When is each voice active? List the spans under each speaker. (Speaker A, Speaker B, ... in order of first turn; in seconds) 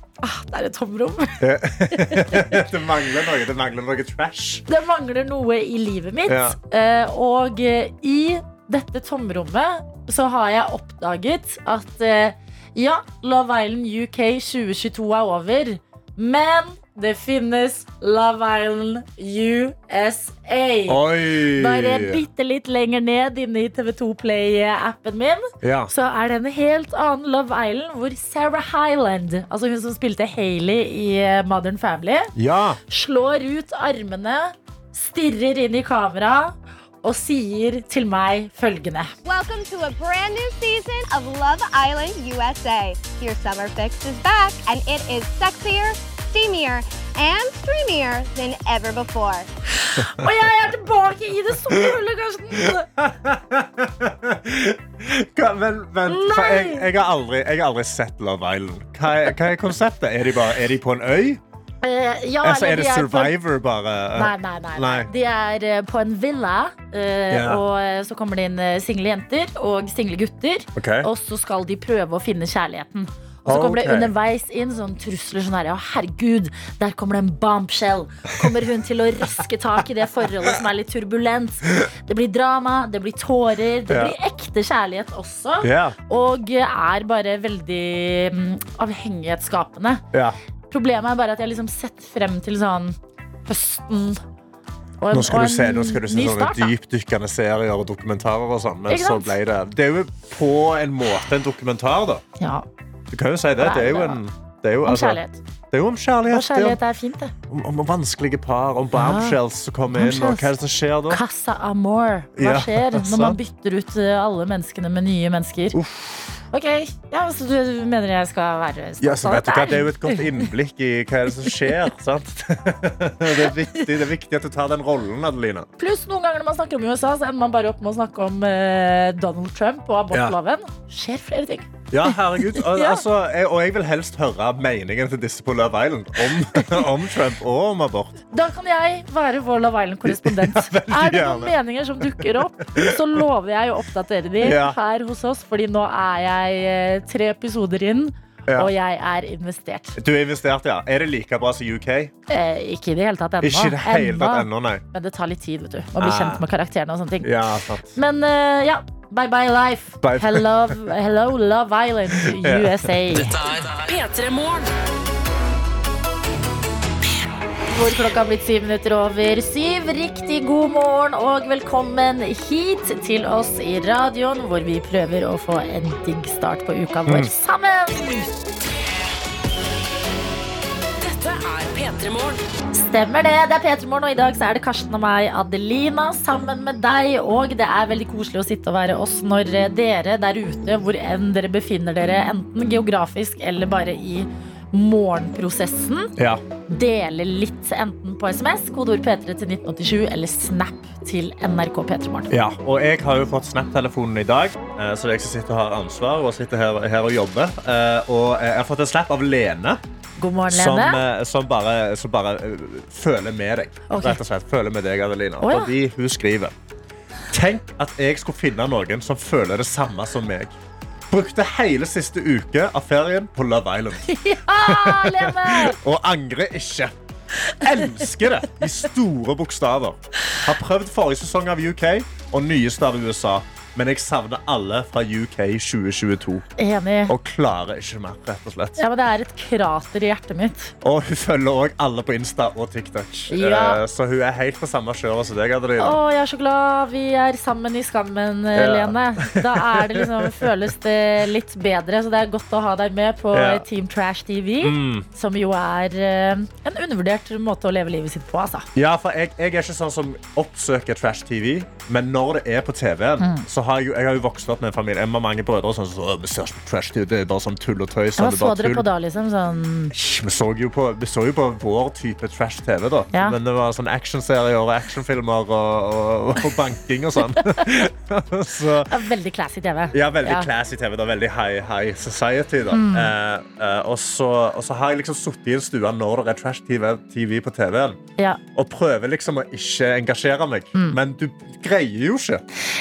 Speaker A: 0.2-2.5, 4.7-32.3, 32.9-39.1, 49.8-52.9, 56.1-56.9, 61.8-63.3, 64.1-90.0, 90.7-93.0, 93.5-94.2, 95.0-96.7, 98.9-99.4, 102.4-102.7, 103.6-104.2, 104.8-105.4, 106.3-107.3, 108.9-109.4, 109.9-110.5, 111.1-115.8, 116.5-120.4, 121.4-121.7, 123.3-123.8, 125.8-133.0, 136.5-136.8, 138.3-150.0, 152.3-157.3, 157.9-163.3, 167.7-178.1, 182.7-196.1, 196.7-202.3, 210.2-211.0, 213.9-214.2, 215.4-215.7, 224.1-225.8, 227.8-228.0, 236.6-237.1, 238.8-240.7, 243.3-243.8, 245.8-258.7, 263.2-263.4, 268.2-269.9, 277.3-277.6, 278.9-280.5, 282.7-283.1
Speaker B: 1.4-4.6, 6.3-6.6, 20.9-22.2, 25.6-25.9, 32.3-32.8, 52.5-61.4, 62.4-65.1, 67.3-67.6, 70.7-71.1, 73.5-74.1, 83.9-84.1, 85.6-86.0, 90.1-90.4, 95.1-102.2, 103.1-105.2, 105.7-106.8, 107.5-111.2, 112.3-113.4, 115.7-116.4, 119.0-125.7, 130.1-130.3, 131.9-138.2, 140.0-143.0, 144.4-144.8, 149.9-152.1, 153.4-154.8, 156.0-156.4, 157.2-158.0, 160.0-160.7, 162.1-163.0, 196.2-196.4, 202.3-209.8, 210.5-216.5, 217.3-220.5, 221.1-226.9, 227.6-236.4, 237.1-238.8, 240.8-246.0, 248.5-250.5, 253.3-253.6, 254.6-255.1, 258.7-268.8, 269.9-278.9, 279.9-288.0, 288.5-292.4
Speaker C: 39.2-49.5
Speaker D: 163.2-164.7, 181.0-182.4